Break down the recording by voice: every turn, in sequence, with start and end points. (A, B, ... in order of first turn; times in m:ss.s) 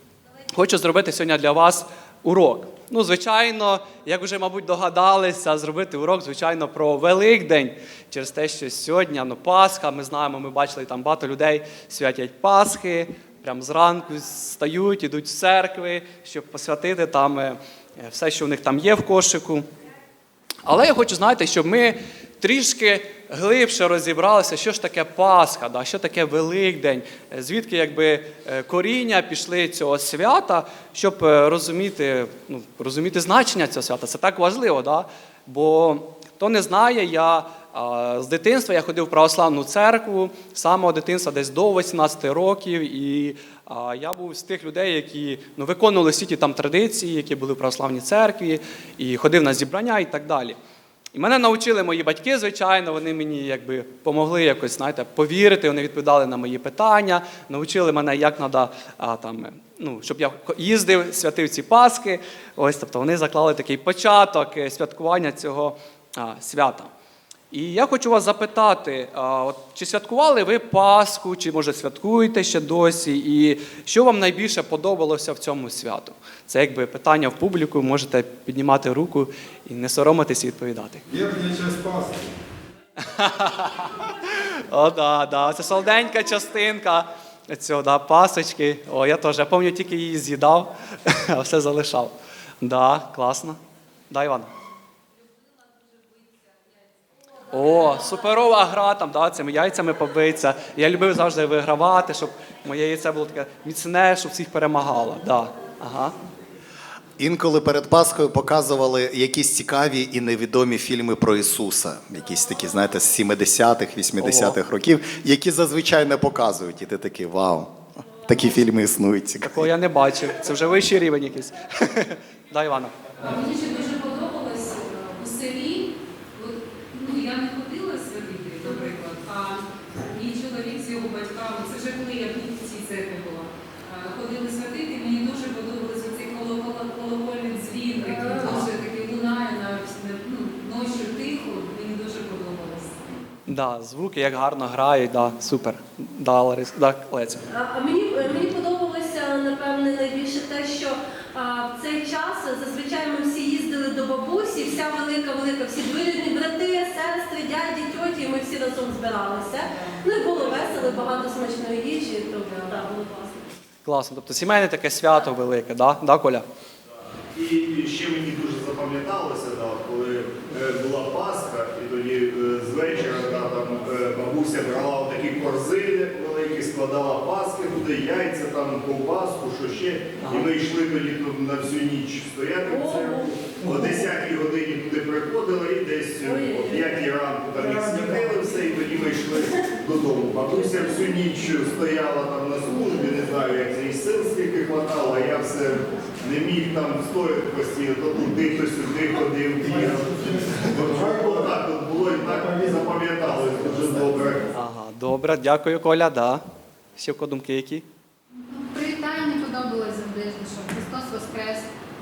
0:00.5-0:19.7 A
0:20.6-0:50.6 A
0:51.1-1:06.9 A
1:07.5-1:21.0 A
1:21.1-1:22.3 B
1:23.0-1:33.6 A
1:34.1-1:34.5 A
1:37.5-1:46.2 A
1:47.2-1:59.7 C
1:54.2-1:54.6 A
1:59.4-2:03.0 A
2:03.2-2:23.0 D
2:18.1-2:18.6 E
2:18.4-2:18.7 A
2:23.5-2:27.5 A
2:27.5-2:43.4 E
2:43.8-2:46.5 A
2:47.3-3:24.5 F
3:00.2-3:00.5 A
3:02.7-3:03.3 E
3:03.6-3:04.0 A
3:06.2-3:06.9 E
3:19.7-3:21.4 B
3:23.8-3:24.0 B
3:24.5-3:26.4 A
3:27.0-3:27.9 A
3:28.5-3:31.7 G